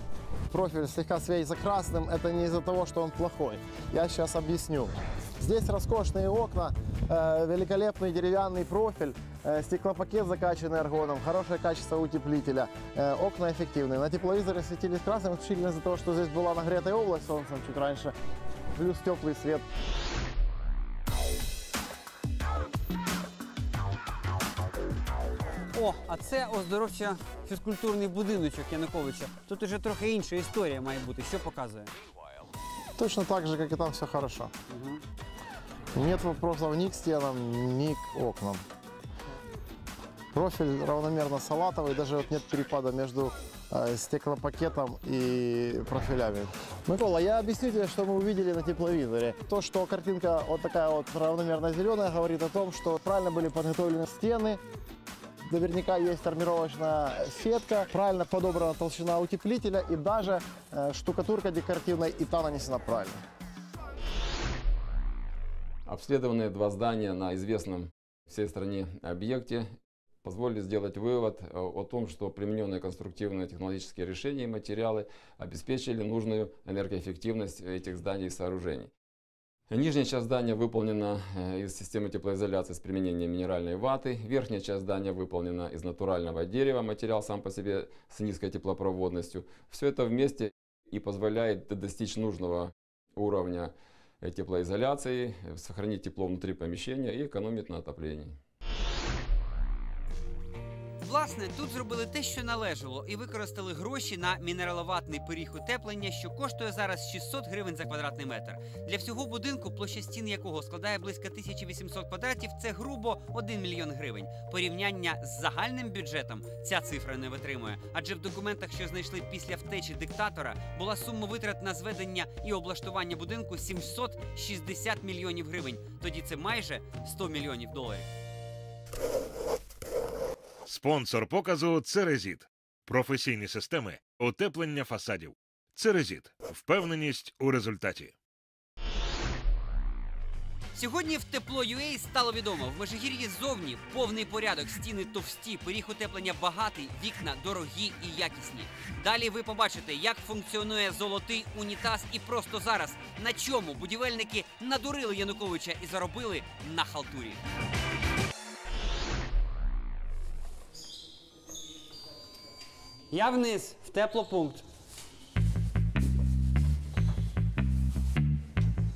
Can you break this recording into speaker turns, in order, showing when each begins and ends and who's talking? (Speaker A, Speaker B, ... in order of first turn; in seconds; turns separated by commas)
Speaker A: 0.5-18.1, Speaker A: 18.7-19.6, Speaker B: 25.7-31.9, Speaker A: 33.0-34.5, Speaker B: 34.7-35.0, Speaker A: 35.9-38.6, Speaker A: 40.3-54.6, Speaker A: 55.4-63.2, Speaker C: 65.8-69.7, Speaker C: 70.2-78.9, Speaker C: 79.7-98.4, Speaker B: 101.0-128.1, Speaker D: 130.7-138.1, Speaker B: 140.7-157.4, Speaker B: 163.1-164.6